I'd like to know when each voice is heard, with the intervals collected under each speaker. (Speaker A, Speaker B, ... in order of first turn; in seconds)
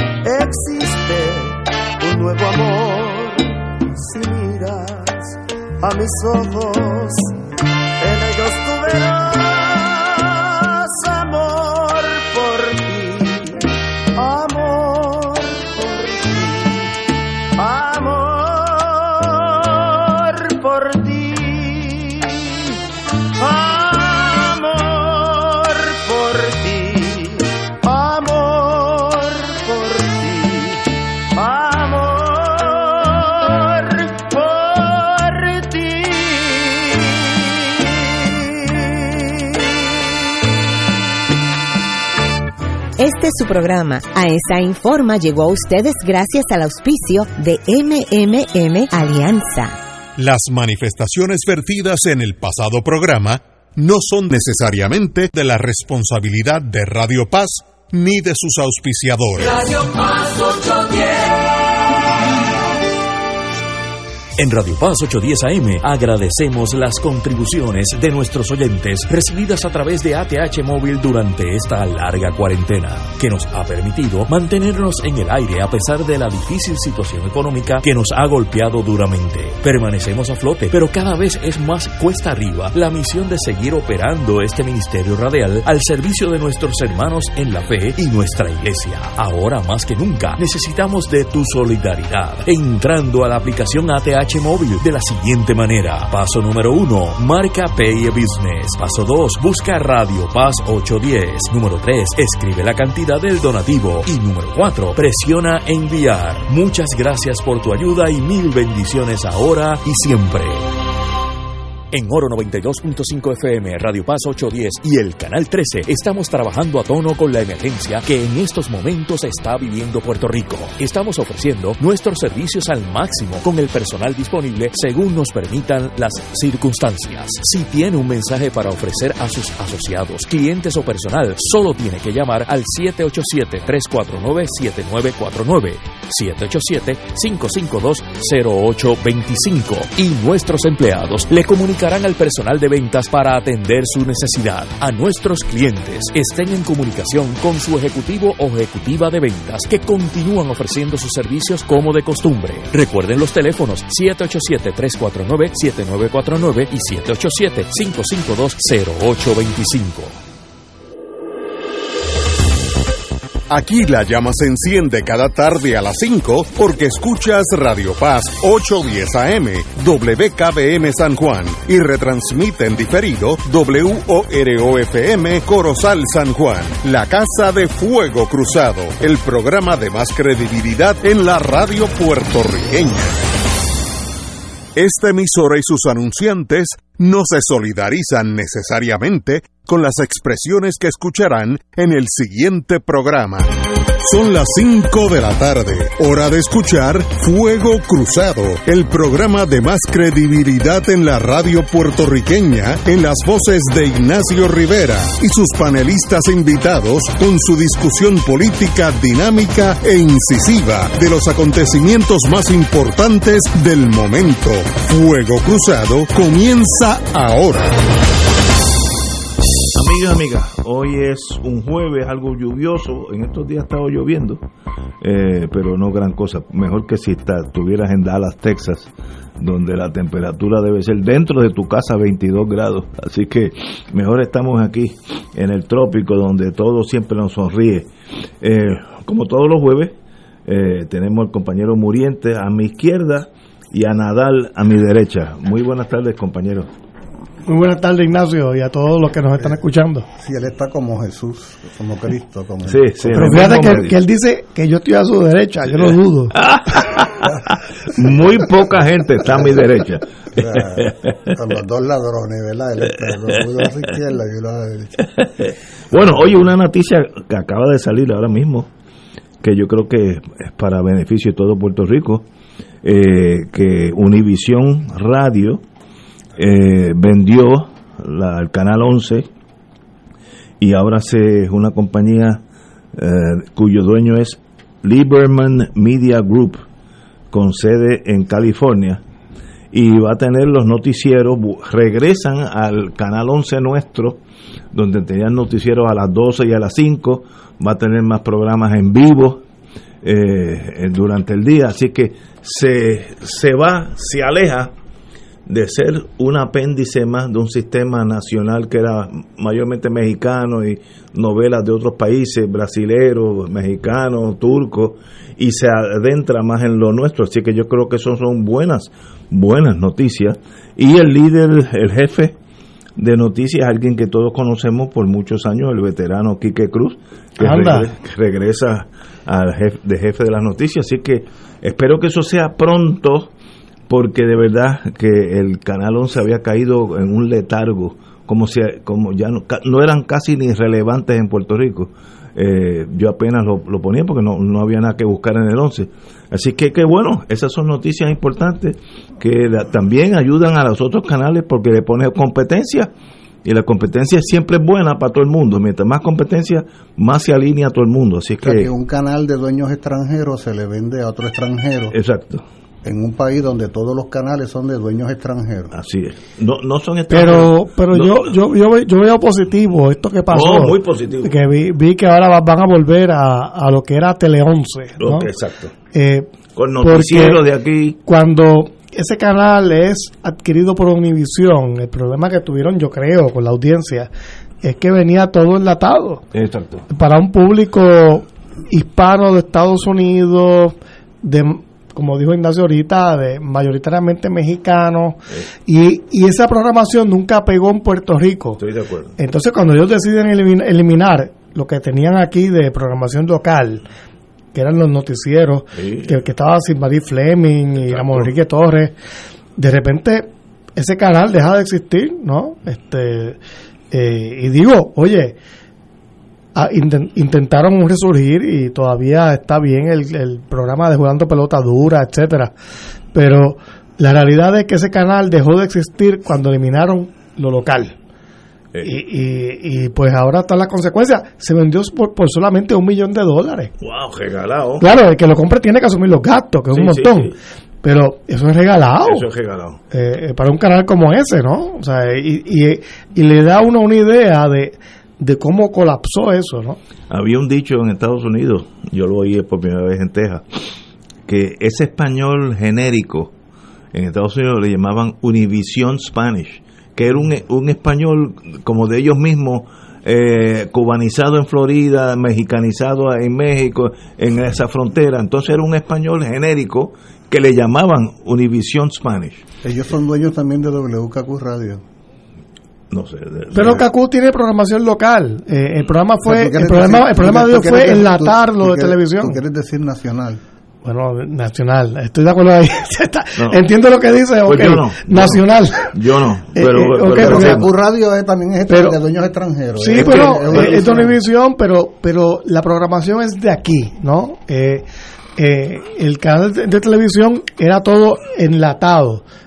Speaker A: 0.2-7.3, 8.0-16.9, 17.5-22.8, 23.4-40.0
Speaker B: 43.0-49.8
Speaker C: 50.2-59.6, 163.5-183.2, 184.8-217.8
Speaker D: 64.4-110.7, 111.9-160.2
Speaker E: 219.8-224.4, 225.0-237.9, 238.4-239.9, 240.5-246.7, 252.7-253.9, 255.7-261.3, 265.2-268.7, 269.4-272.3, 272.8-275.6, 276.4-279.3, 280.6-282.4, 282.9-286.6, 287.3-289.0, 289.7-294.2, 294.7-299.4, 300.0-304.7, 305.5-322.4, 323.0-333.3, 333.9-352.9, 353.4-358.7, 361.9-362.4, 365.7-368.3, 370.3-371.4, 375.0-375.7, 376.5-378.0, 386.3-386.9, 398.6-399.1, 405.8-406.3, 407.8-408.3, 433.8-434.9, 436.7-437.3, 439.0-439.8, 447.1-450.4, 451.3-453.3, 453.9-469.4, 472.9-473.9, 483.4-483.6, 484.4-487.7, 489.9-491.0
Speaker F: 247.5-250.1, 253.1-256.4, 327.4-327.9, 367.1-375.3, 375.9-377.4, 378.1-384.1, 384.6-386.2, 386.9-398.6, 399.2-403.9, 404.5-408.9, 409.6-413.4, 413.9-415.4, 416.6-422.5, 423.1-427.9, 428.8-433.7, 434.8-439.3, 439.9-446.8, 473.5-479.4, 480.8-485.9, 486.6-487.6, 488.7-489.0, 489.8-494.9, 495.4-499.2
Speaker G: 250.2-252.8, 259.3-259.6, 260.3-265.0, 358.4-361.9, 362.8-365.7, 469.6-471.8, 476.2-480.4, 487.1-491.1